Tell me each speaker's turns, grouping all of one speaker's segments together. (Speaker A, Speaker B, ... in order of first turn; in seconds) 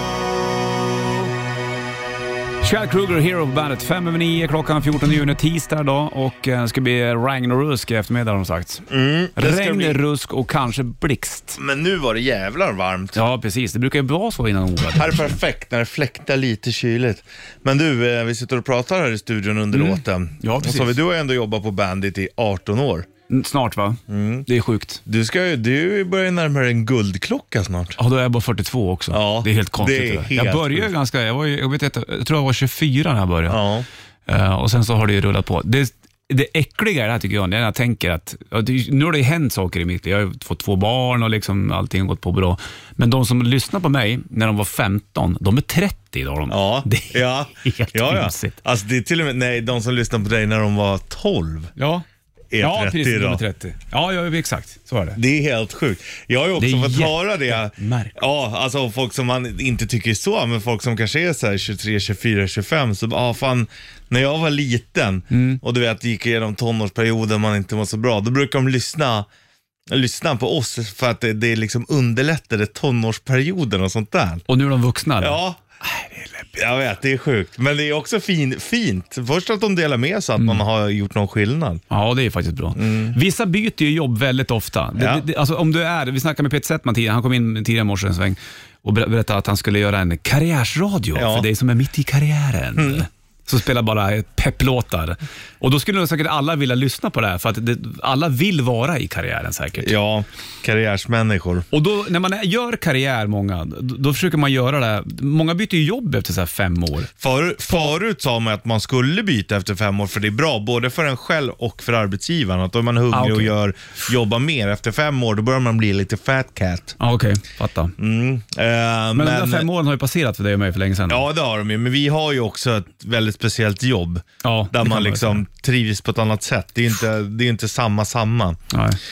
Speaker A: 2.6-11.6, 13.2-15.3, 19.7-21.0, 23.3-25.0, 28.0-33.6, 34.3-48.6, 51.8-52.0, 52.6-55.2, 56.6-58.2, 65.3-65.6, 74.5-76.5, 80.4-80.6, 81.9-99.9, 101.7-107.1, 113.1-113.5, 117.0-118.0, 119.2-121.2, 124.4-125.4, 128.7-129.0
Speaker B: 8.9-10.0, 11.6-13.2, 14.9-23.1, 24.1-24.5, 25.1-28.0, 29.1-30.9, 33.5-33.9, 46.5-51.7, 52.5-53.4, 55.2-69.3, 69.9-74.4, 75.2-75.6, 76.5-81.8, 82.8-83.2, 85.0-85.3, 91.1-91.5, 92.8-93.0, 99.8-101.7, 107.2-117.0, 118.0-119.7, 121.1-128.6